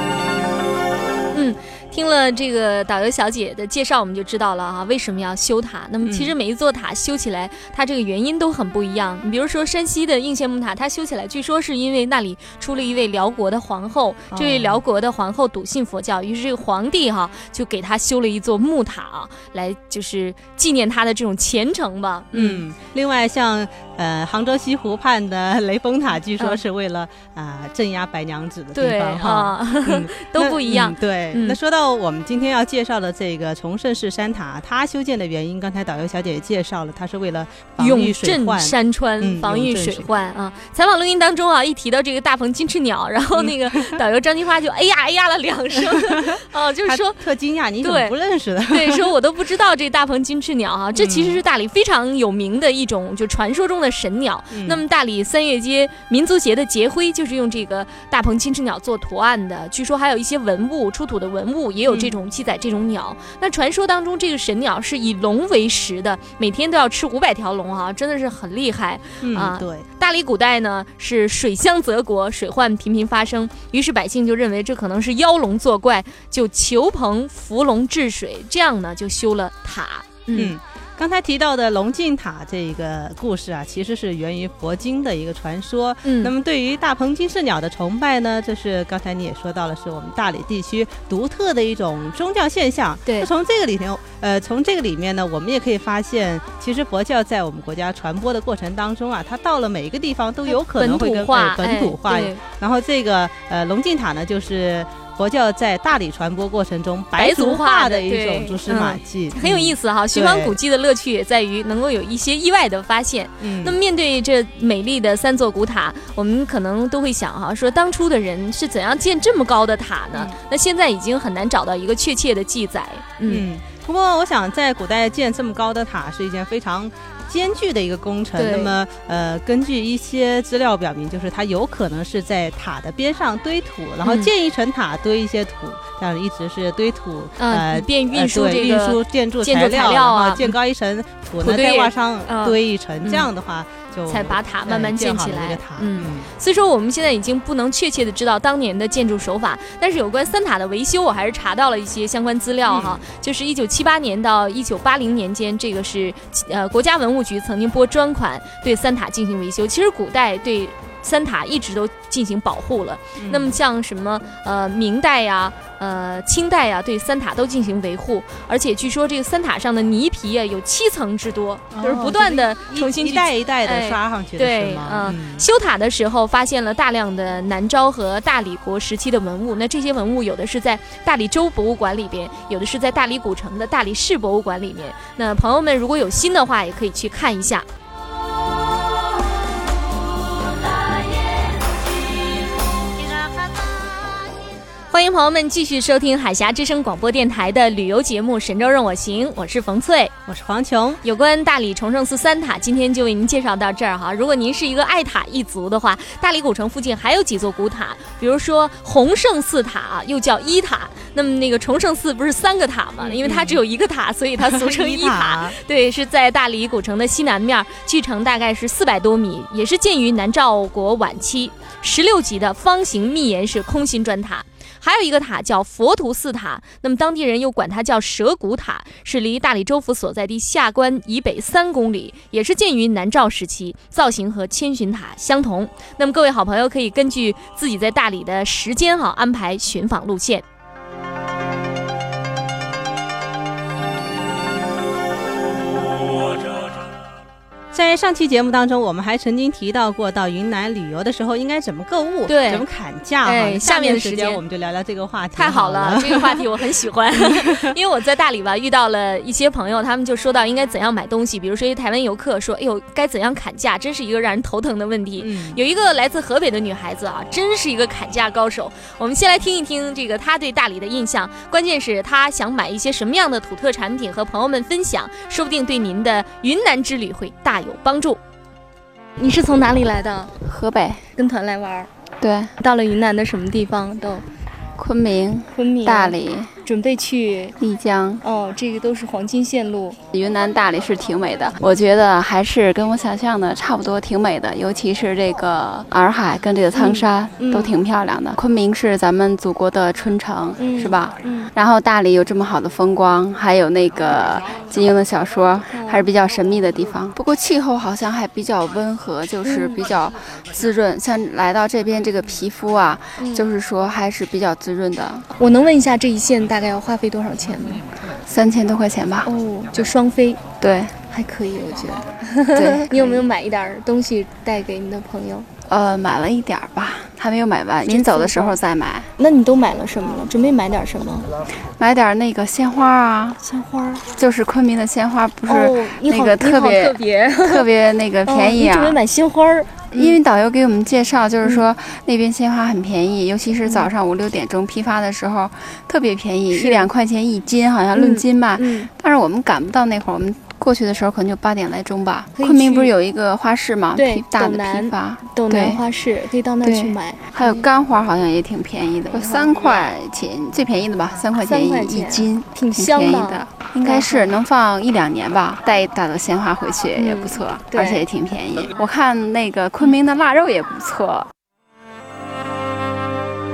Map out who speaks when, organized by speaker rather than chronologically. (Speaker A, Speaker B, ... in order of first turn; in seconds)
Speaker A: 1.3-22.6, 28.8-31.6, 37.8-47.2, 47.8-48.1, 48.7-80.5, 86.0-86.3, 100.5-102.4, 107.2-123.5, 128.4-128.8, 134.0-134.3, 137.4-140.6, 141.4-143.3, 144.1-187.7, 194.9-200.1, 201.0-240.4, 252.3-252.7, 253.2-254.4, 255.4-278.2
Speaker B: 6.0-6.3, 14.3-14.8, 22.3-40.1, 43.4-44.0, 46.1-49.1, 51.0-51.4, 54.5-54.8, 61.9-62.1, 69.2-69.9, 80.3-110.6, 113.4-113.8, 123.3-146.3, 152.7-153.0, 163.2-163.6, 171.7-175.4, 200.3-201.0, 213.0-213.6, 214.4-215.6, 247.7-256.6, 257.1-257.7, 265.2-265.6
Speaker C: 279.2-280.3, 281.2-281.9, 282.6-284.2, 285.5-287.6, 288.2-290.0, 296.7-297.8, 300.6-301.5, 305.7-306.1, 309.4-309.9, 313.2-313.5, 315.4-317.8, 319.2-320.5, 321.1-325.5, 327.9-328.6, 329.2-331.3, 333.4-334.1, 335.5-337.7, 338.3-340.2, 346.5-346.9, 347.9-348.9, 352.4-352.9, 353.9-357.7, 359.1-359.9, 361.4-364.4, 367.0-368.0
Speaker D: 280.4-281.0, 282.2-282.5, 284.8-286.5, 287.6-288.2, 290.1-315.3, 318.2-319.3, 320.6-321.0, 322.6-323.2, 325.7-329.1, 331.8-333.4, 334.1-339.0, 339.9-355.8, 356.6-371.3